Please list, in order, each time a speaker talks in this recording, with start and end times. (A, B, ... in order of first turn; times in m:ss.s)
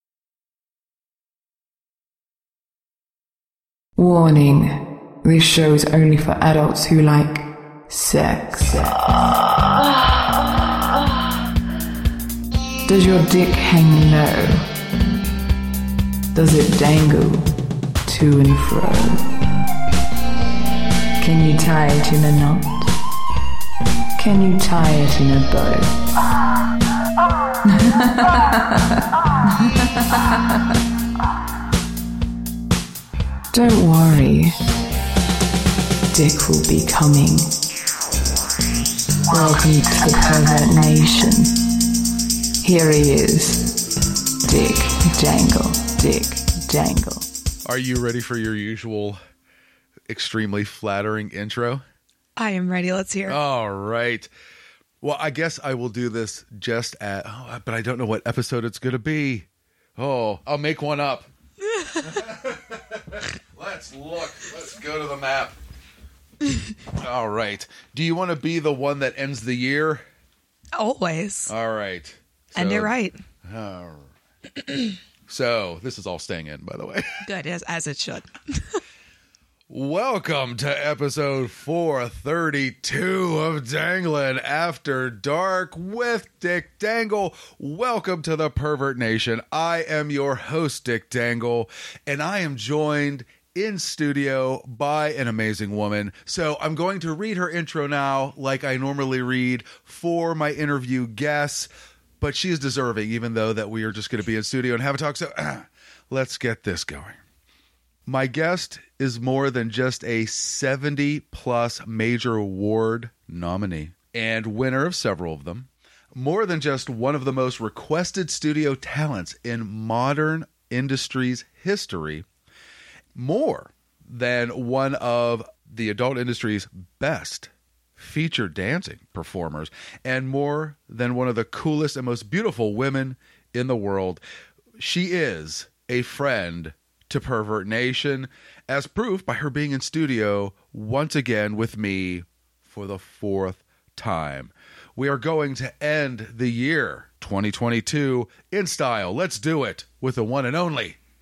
0:04.0-0:09.1 A
0:12.8-0:14.7 A
0:16.3-0:17.5 A
0:18.0-0:19.3 A
0:21.2-0:22.9 A
0:24.2-0:26.0 A
0:27.6-0:30.7 A
0:33.5-0:34.6 A
0:36.1-0:37.6 A
0:39.3-0:41.6 A
0:42.6-0:43.8 A
0:44.4-0:47.3 A
0:47.6-0:49.2 B
0:50.1-0:51.8 B
0:52.4-0:53.4 C
0:53.3-0:54.3 B
0:55.0-1:01.3 B
1:01.7-1:02.2 C
1:02.0-1:05.6 B
1:06.9-1:10.0 B
1:10.7-1:11.5 C
1:11.5-1:12.9 B
1:12.6-1:13.2 C
1:13.4-1:14.1 B
1:15.3-1:17.2 B
1:17.2-1:18.8 C
1:19.7-1:41.7 B
1:42.2-1:47.2 B
1:48.1-2:02.3 B
2:03.2-2:14.2 B
2:14.8-2:31.0 B